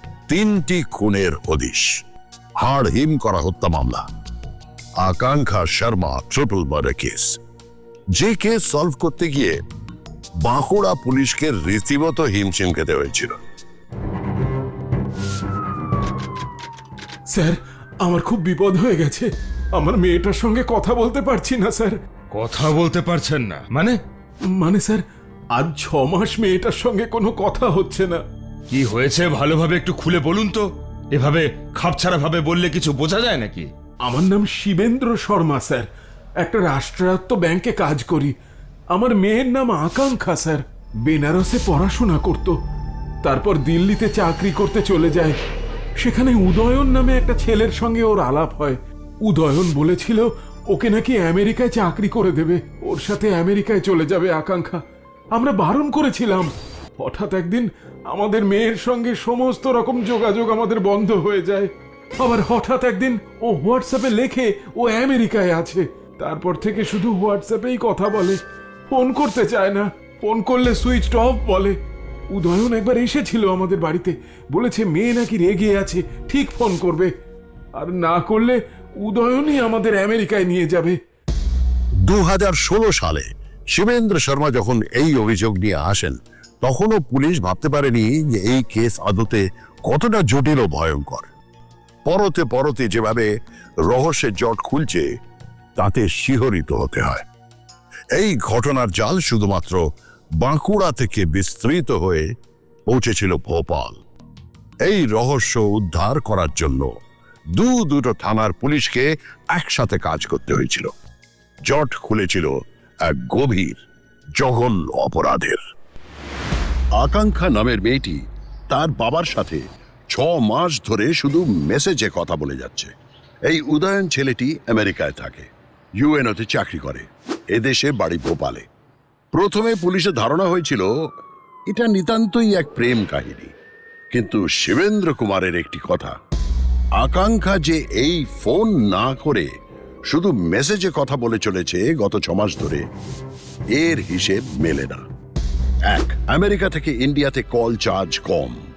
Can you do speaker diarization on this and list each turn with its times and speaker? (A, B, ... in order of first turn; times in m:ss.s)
0:00.3-0:01.9 A
0:02.6-0:04.0 A
0:05.0-0:07.4 A
0:08.2-0:09.6 A
0:10.4-0:13.3 A
0:17.3-0:22.0 B
0:22.3-0:24.0 C
0:24.5-0:28.2 B
0:28.7-0:33.7 C
0:34.0-0:35.8 B
0:36.4-0:38.3 B
0:38.9-0:42.6 B
0:43.2-0:45.4 B
0:46.0-0:54.8 B
0:55.3-1:11.8 B
1:12.3-1:17.1 B
1:17.8-1:21.0 B
1:22.1-1:31.2 A
1:32.0-1:33.3 A
1:33.9-1:35.0 A
1:35.8-1:37.2 A
1:38.1-1:39.8 A
1:40.4-1:42.2 A
1:42.9-1:44.0 A
1:44.8-1:46.9 A
1:47.5-1:50.9 A
1:51.6-1:52.5 A
1:53.0-1:53.8 A
1:54.4-1:55.6 A
1:57.0-2:02.9 A
2:03.4-2:05.5 A
2:06.0-2:08.6 A
2:09.3-2:10.9 A
2:11.7-2:13.5 A
2:14.1-2:16.1 A
2:17.0-2:19.5 A
2:20.1-2:22.8 A
2:23.7-2:25.0 A
2:25.9-2:28.6 A